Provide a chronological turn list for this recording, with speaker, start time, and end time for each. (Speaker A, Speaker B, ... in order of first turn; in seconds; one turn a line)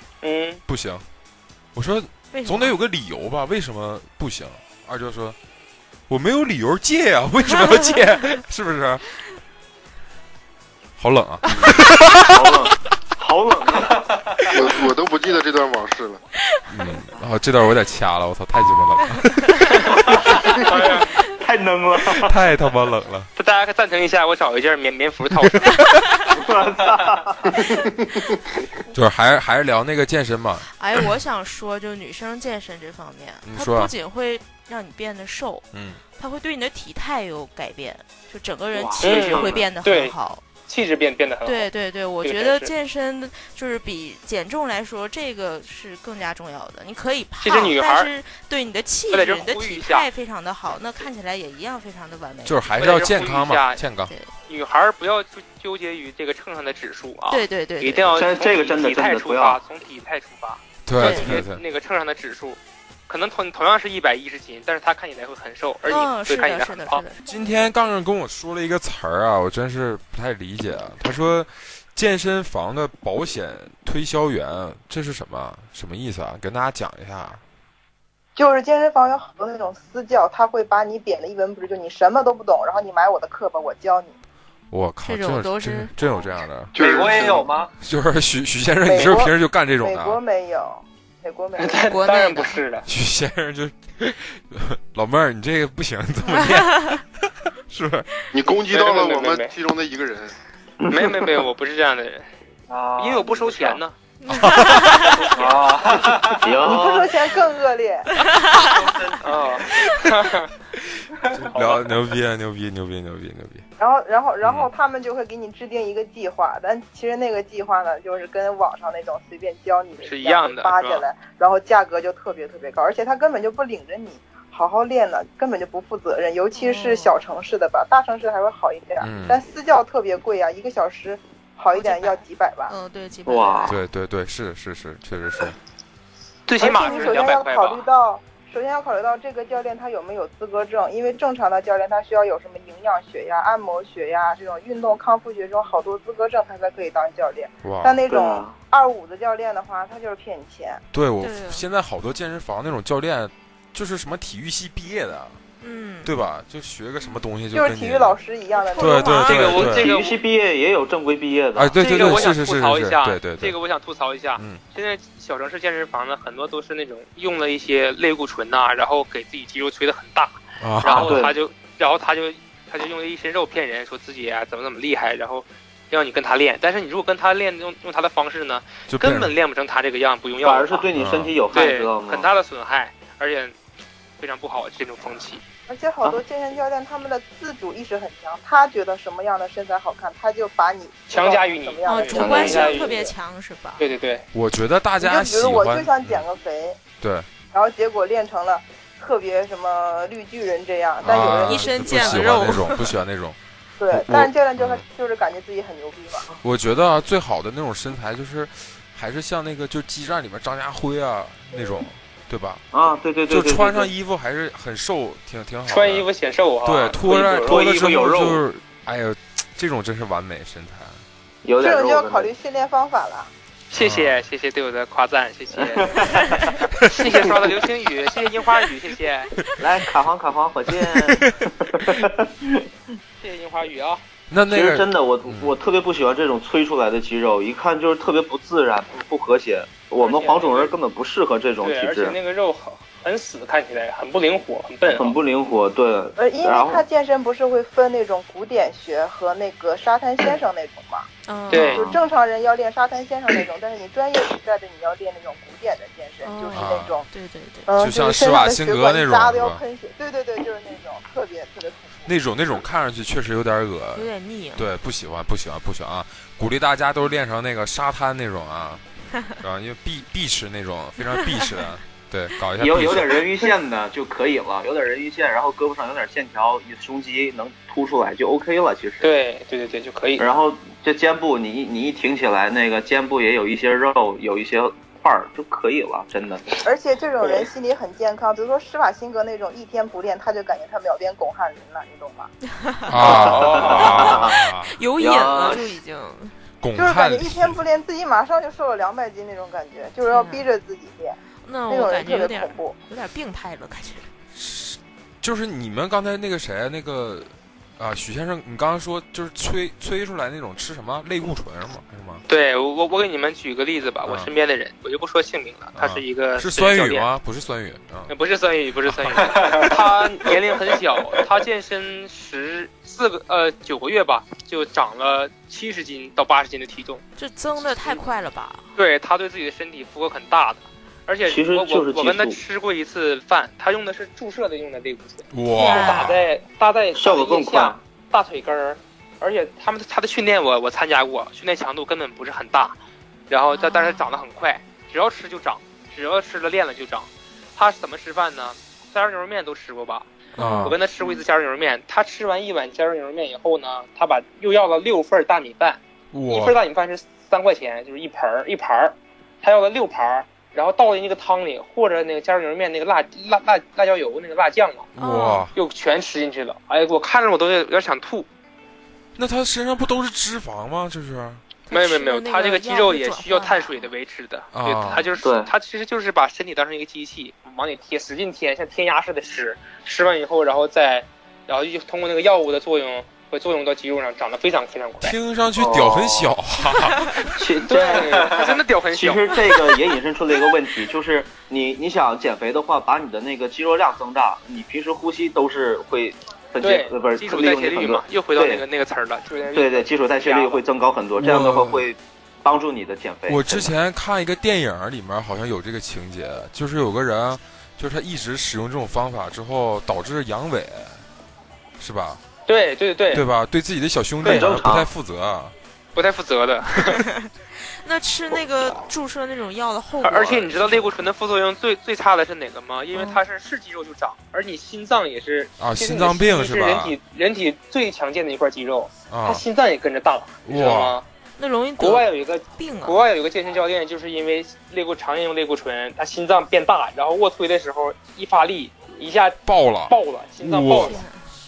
Speaker A: 0.2-0.6
Speaker B: 0.7-1.0
Speaker B: 1.7-5.3
Speaker C: 2.3-2.8
Speaker B: 6.1-9.0
Speaker B: 11.0-12.7
Speaker D: 11.5-14.1
Speaker E: 14.5-16.2
Speaker B: 16.7-19.9
Speaker A: 19.7-21.1
Speaker D: 20.3-22.4
Speaker B: 22.2-23.3
Speaker A: 23.4-25.7
Speaker D: 26.3-27.8
Speaker B: 28.9-30.6
Speaker C: 30.6-40.4
Speaker B: 33.4-33.9
Speaker B: 35.7-36.0
Speaker D: 38.8-39.6
Speaker F: 39.0-39.6
Speaker A: 39.0-41.7
Speaker C: 41.4-52.8
Speaker A: 42.2-42.7
Speaker A: 47.4-48.1
Speaker A: 49.1-50.1
Speaker B: 52.4-54.1
Speaker A: 52.8-53.8
Speaker C: 54.1-54.3
Speaker A: 54.5-67.0
Speaker C: 57.3-58.2
Speaker D: 58.1-59.6
Speaker B: 60.8-61.6
Speaker C: 60.9-61.4
Speaker C: 65.8-67.7
Speaker B: 67.2-77.4
Speaker G: 78.3-84.2
Speaker B: 84.7-86.8
Speaker C: 85.0-85.9
Speaker E: 86.7-87.5
Speaker F: 86.8-87.7
Speaker B: 87.8-90.2
Speaker G: 88.8-91.8
Speaker A: 91.6-92.8
Speaker C: 91.9-92.6
Speaker B: 92.8-98.1
Speaker C: 96.4-97.0
Speaker E: 98.3-100.3
Speaker A: 98.4-99.5
Speaker D: 100.8-101.4
Speaker A: 100.9-102.3
Speaker F: 102.7-103.8
Speaker A: 103.0-103.9
Speaker C: 104.2-105.2
Speaker B: 104.3-104.9
Speaker A: 105.0-105.7
Speaker F: 105.3-106.6
Speaker D: 106.4-107.2
Speaker G: 106.6-108.1
Speaker C: 108.2-108.6
Speaker F: 109.0-109.6
Speaker A: 109.2-110.5
Speaker B: 110.8-113.6
Speaker F: 111.3-111.9
Speaker G: 113.8-132.7
Speaker B: 114.4-114.7
Speaker A: 120.0-121.0
Speaker C: 126.5-127.1
Speaker B: 129.0-129.4
Speaker C: 131.7-133.8
Speaker D: 133.2-133.8
Speaker B: 133.7-135.6
Speaker A: 136.5-137.8
Speaker G: 136.6-150.8
Speaker C: 136.8-137.1
Speaker B: 147.6-148.0
Speaker D: 148.1-148.5
Speaker B: 150.9-155.4
Speaker C: 151.2-151.6
Speaker C: 155.6-156.1
Speaker B: 156.0-158.2
Speaker G: 157.5-159.3
Speaker C: 158.7-159.5
Speaker B: 158.8-159.9
Speaker A: 159.2-160.2
Speaker D: 159.5-162.3
Speaker B: 161.6-163.6
Speaker A: 161.8-180.9
Speaker B: 164.3-164.6
Speaker B: 170.6-171.2
Speaker D: 170.8-171.3
Speaker B: 178.9-179.3
Speaker D: 180.4-182.2
Speaker B: 180.9-181.3
Speaker A: 181.5-183.6
Speaker A: 184.2-185.4
Speaker G: 185.7-193.1
Speaker A: 191.1-193.0
Speaker C: 191.8-193.8
Speaker D: 192.1-192.7
Speaker A: 193.8-194.2
Speaker B: 194.3-196.2
Speaker G: 195.0-196.8
Speaker B: 197.0-197.3
Speaker G: 197.5-202.1
Speaker B: 201.0-203.4
Speaker C: 201.1-202.9
Speaker G: 203.8-206.2
Speaker B: 203.9-204.8
Speaker B: 206.4-212.6
Speaker D: 212.7-213.9
Speaker B: 213.3-216.1
Speaker A: 215.7-217.6
Speaker B: 216.6-221.0
Speaker D: 217.0-218.4
Speaker D: 221.4-222.3
Speaker G: 221.6-223.3
Speaker A: 223.7-229.3
Speaker B: 223.8-224.2
Speaker D: 225.5-226.5
Speaker D: 229.6-232.7
Speaker B: 231.1-231.4
Speaker A: 233.2-234.0
Speaker B: 234.3-235.5
Speaker D: 234.5-242.2
Speaker A: 240.0-240.7
Speaker A: 241.6-245.1
Speaker D: 244.8-246.8
Speaker G: 246.2-251.1
Speaker C: 251.2-251.8
Speaker A: 251.5-251.8
Speaker D: 251.5-252.0
Speaker G: 251.7-257.1
Speaker C: 256.2-257.7
Speaker B: 256.5-257.0
Speaker G: 257.7-262.1
Speaker B: 257.8-259.6
Speaker B: 262.1-268.8
Speaker C: 263.9-264.7
Speaker B: 269.4-273.3
Speaker D: 272.6-279.1
Speaker A: 279.0-280.2
Speaker D: 280.2-286.5
Speaker G: 286.6-292.3
Speaker C: 292.6-293.1
Speaker B: 292.9-294.8
Speaker D: 293.0-294.4
Speaker A: 293.2-293.9
Speaker C: 293.8-296.4
Speaker D: 295.0-295.8
Speaker B: 296.6-297.6
Speaker G: 296.8-301.2
Speaker C: 300.1-300.5
Speaker C: 301.4-304.1
Speaker G: 301.7-302.8
Speaker B: 304.3-312.2
Speaker A: 312.3-317.1
Speaker B: 314.0-314.3
Speaker B: 315.8-318.1
Speaker A: 318.1-327.0
Speaker F: 319.3-319.7
Speaker C: 327.2-328.7
Speaker A: 328.8-342.8
Speaker D: 331.2-332.4
Speaker B: 335.3-336.3
Speaker C: 335.5-336.1
Speaker D: 336.9-337.8
Speaker A: 343.3-350.1
Speaker C: 343.5-344.2
Speaker B: 350.4-350.8
Speaker C: 350.4-350.8
Speaker A: 350.6-364.9
Speaker B: 356.1-356.6
Speaker B: 364.9-365.5
Speaker C: 365.0-365.5
Speaker A: 365.5-368.3
Speaker B: 369.1-371.4
Speaker C: 371.7-373.9
Speaker A: 371.7-385.1
Speaker B: 374.5-375.1
Speaker D: 375.2-375.5
Speaker B: 385.0-387.3
Speaker F: 385.5-386.4
Speaker D: 387.4-398.6
Speaker A: 387.7-389.7
Speaker A: 396.6-400.6
Speaker D: 399.5-403.7
Speaker B: 401.2-401.9
Speaker B: 403.3-411.0
Speaker B: 411.8-412.2
Speaker A: 412.5-413.2
Speaker B: 413.1-415.5
Speaker D: 414.2-414.9
Speaker A: 415.9-417.0
Speaker C: 416.9-420.9
Speaker A: 420.0-431.1
Speaker C: 422.9-423.2
Speaker B: 425.6-427.0
Speaker B: 429.1-429.4
Speaker B: 430.4-431.0
Speaker C: 431.4-433.0
Speaker A: 431.8-441.0
Speaker B: 439.4-441.0
Speaker C: 440.8-441.3